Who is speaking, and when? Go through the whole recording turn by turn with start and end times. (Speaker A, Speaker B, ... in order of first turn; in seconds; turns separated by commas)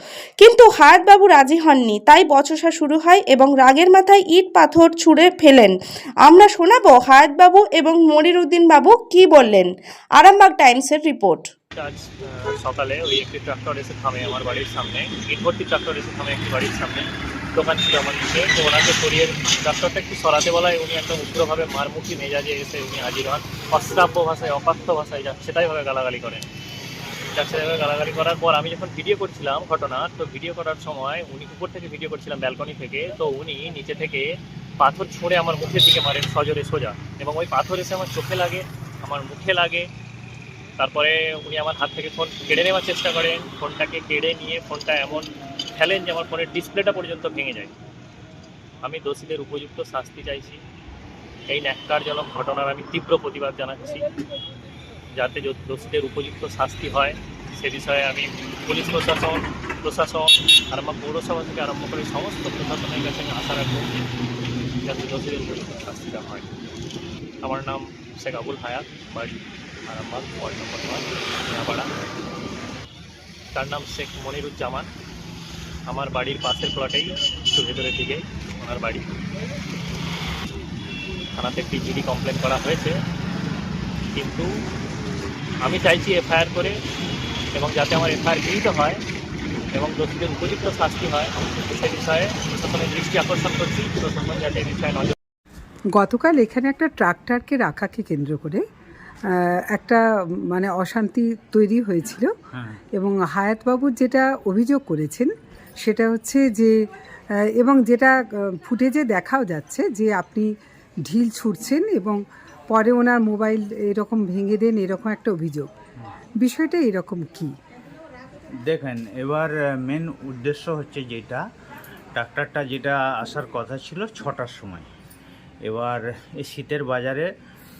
Speaker A: 0.4-11.4, Speaker B: 11.8-26.4, Speaker B: 27.3-39.9, Speaker B: 40.8-45.2, Speaker B: 45.8-47.7, Speaker B: 48.8-50.6, Speaker B: 51.5-54.0, Speaker B: 55.1-64.0, Speaker B: 64.8-66.5, Speaker B: 67.4-69.3, Speaker B: 69.9-71.9, Speaker B: 73.5-74.9, Speaker B: 75.9-79.1, Speaker B: 81.3-83.0, Speaker B: 84.1-84.5, Speaker B: 85.6-86.7, Speaker B: 87.5-89.0, Speaker B: 89.7-95.1, Speaker C: 95.9-98.6, Speaker C: 99.3-102.3, Speaker D: 102.5-102.8, Speaker C: 102.9-105.3, Speaker C: 105.8-106.7, Speaker C: 107.6-110.5, Speaker C: 111.1-112.2, Speaker C: 112.7-115.7, Speaker C: 116.4-117.5, Speaker D: 118.6-121.4, Speaker D: 122.1-124.9, Speaker D: 125.6-127.3